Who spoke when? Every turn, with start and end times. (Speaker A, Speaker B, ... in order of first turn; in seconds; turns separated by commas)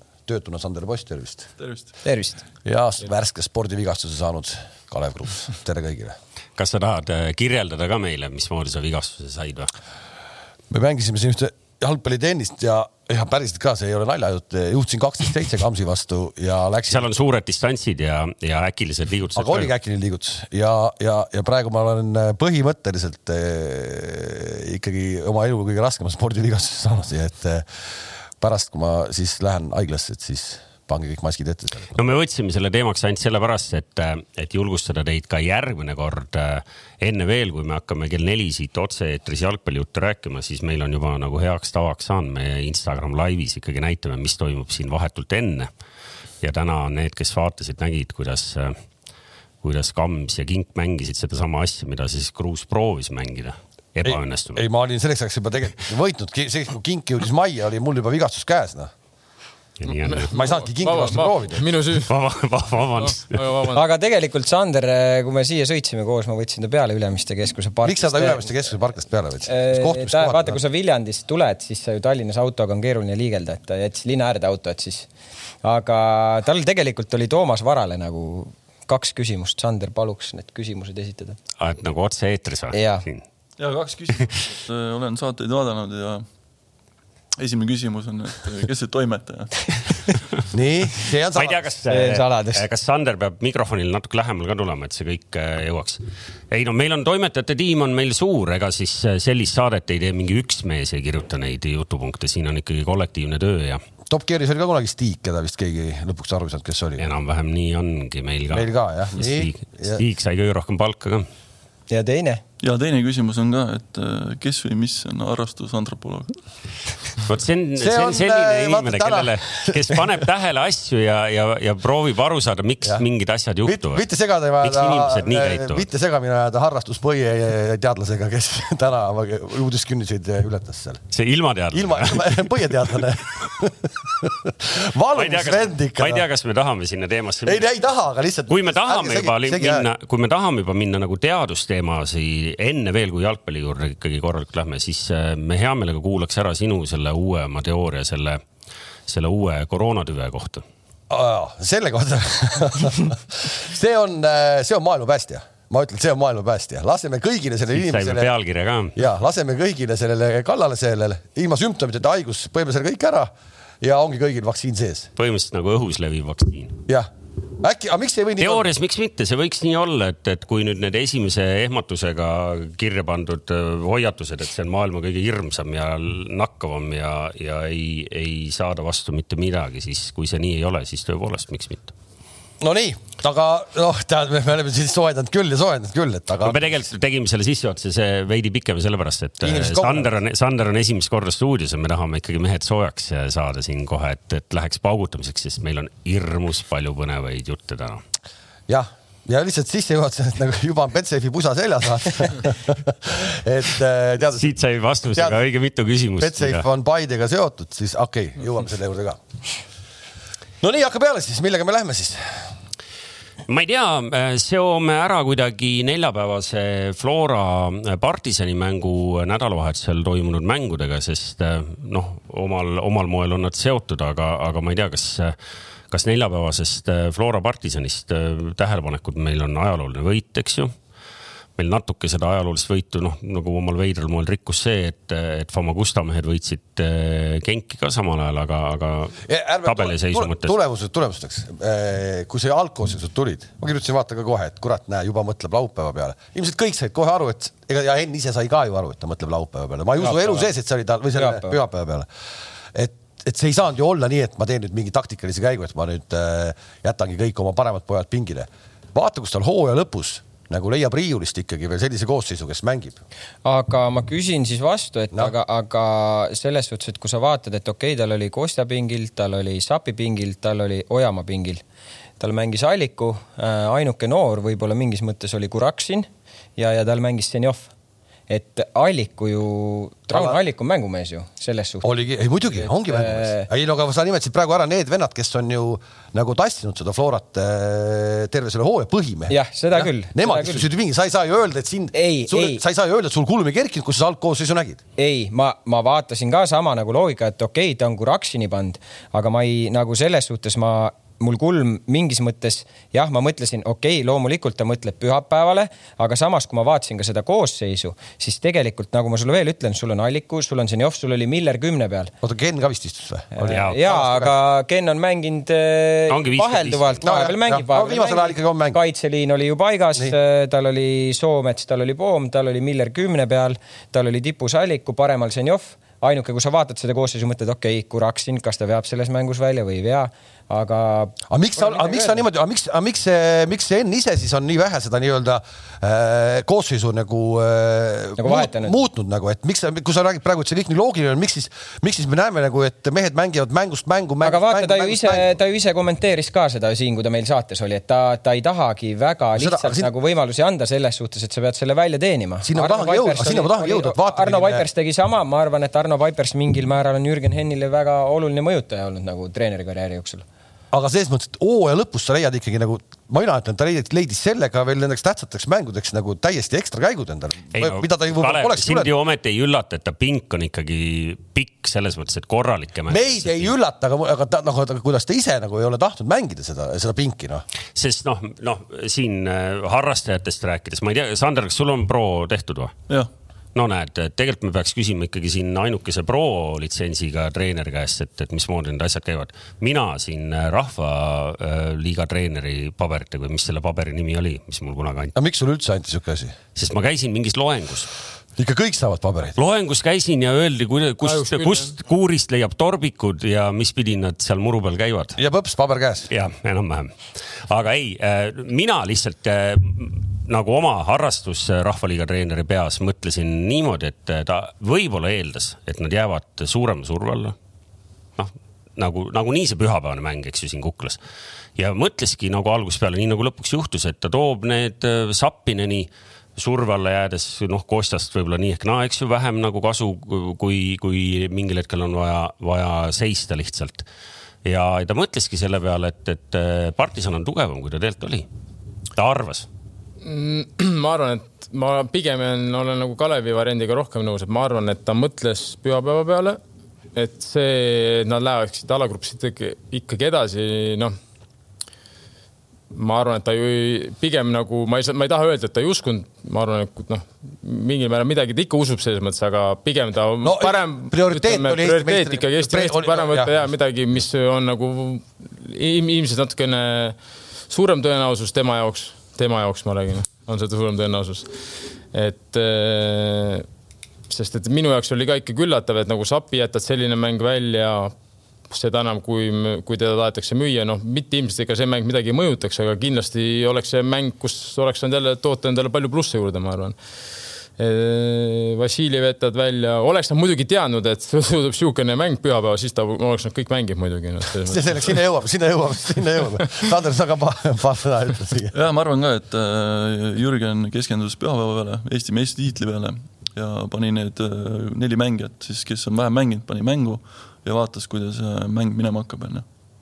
Speaker A: 0.3-1.5, Speaker B: 1.6-1.9, Speaker C: 2.0-2.4, Speaker A: 2.6-6.2, Speaker D: 6.6-9.7, Speaker A: 10.7-17.1, Speaker D: 16.9-19.7, Speaker A: 19.4-27.6, Speaker A: 28.4-32.0, Speaker D: 31.9-45.7, Speaker D: 46.4-48.8, Speaker D: 49.6-54.6, Speaker A: 54.0-58.9, Speaker D: 59.8-60.3, Speaker E: 60.0-62.1, Speaker A: 60.3-61.6, Speaker D: 62.1-63.4, Speaker E: 63.0-63.8, Speaker C: 63.7-68.5, Speaker A: 67.8-70.6, Speaker C: 69.5-75.1, Speaker C: 75.6-81.4, Speaker D: 81.6-83.2, Speaker C: 82.7-83.0, Speaker B: 83.6-86.2, Speaker B: 87.4-90.2, Speaker A: 90.5-91.8, Speaker D: 91.3-103.8, Speaker C: 91.9-92.6, Speaker A: 104.1-107.0, Speaker D: 107.0-111.3, Speaker A: 108.5-110.0, Speaker C: 111.9-112.4, Speaker B: 112.6-116.4, Speaker D: 117.3-124.0, Speaker A: 117.8-120.1, Speaker A: 123.7-131.0, Speaker D: 124.6-125.8, Speaker D: 131.1-133.5, Speaker A: 131.7-136.2, Speaker D: 135.1-137.7, Speaker A: 137.4-139.9, Speaker D: 138.5-148.4, Speaker D: 149.1-150.6, Speaker A: 151.1-158.3, Speaker D: 157.7-158.9, Speaker A: 158.9-165.1, Speaker D: 165.2-166.8, Speaker A: 167.6-168.7, Speaker D: 168.4-181.9, Speaker A: 182.6-186.7, Speaker D: 186.4-198.0, Speaker A: 189.4-190.1, Speaker A: 198.7-204.5, Speaker D: 204.3-206.7, Speaker A: 205.1-205.4, Speaker A: 206.2-209.2, Speaker A: 210.6-212.6, Speaker D: 213.5-225.3, Speaker D: 225.9-230.7, Speaker D: 231.6-240.5, Speaker A: 239.2-252.1, Speaker C: 250.0-250.5, Speaker C: 251.2-251.6, Speaker A: 252.7-263.0, Speaker C: 263.4-271.6, Speaker C: 272.2-277.7, Speaker C: 278.3-281.9, Speaker A: 280.1-280.4, Speaker A: 281.8-294.8, Speaker C: 282.6-283.5, Speaker C: 289.3-290.6, Speaker C: 291.9-292.6, Speaker C: 295.0-312.1, Speaker A: 312.2-314.4, Speaker C: 313.3-332.2, Speaker D: 313.5-313.8, Speaker D: 316.1-317.1, Speaker A: 317.0-318.8, Speaker A: 331.3-345.3, Speaker C: 338.2-338.7, Speaker C: 344.2-360.2, Speaker A: 349.4-349.9, Speaker A: 352.4-354.7, Speaker A: 360.7-368.9, Speaker D: 367.5-373.5, Speaker A: 372.9-377.4, Speaker D: 377.8-382.7, Speaker D: 383.6-395.1, Speaker A: 395.1-396.4, Speaker D: 396.6-397.9, Speaker A: 398.4-399.4, Speaker D: 399.4-405.2, Speaker E: 401.0-401.7, Speaker A: 405.2-406.1, Speaker D: 406.1-417.4, Speaker D: 418.2-421.0, Speaker D: 421.6-433.9, Speaker D: 434.4-438.3, Speaker D: 439.0-439.5, Speaker E: 440.0-446.4, Speaker E: 446.9-451.0, Speaker E: 452.7-467.0, Speaker A: 460.2-463.3, Speaker E: 467.5-471.3, Speaker E: 471.9-473.5, Speaker E: 474.1-477.9, Speaker E: 478.5-486.8, Speaker E: 487.6-494.9, Speaker A: 494.4-498.5, Speaker B: 498.5-509.4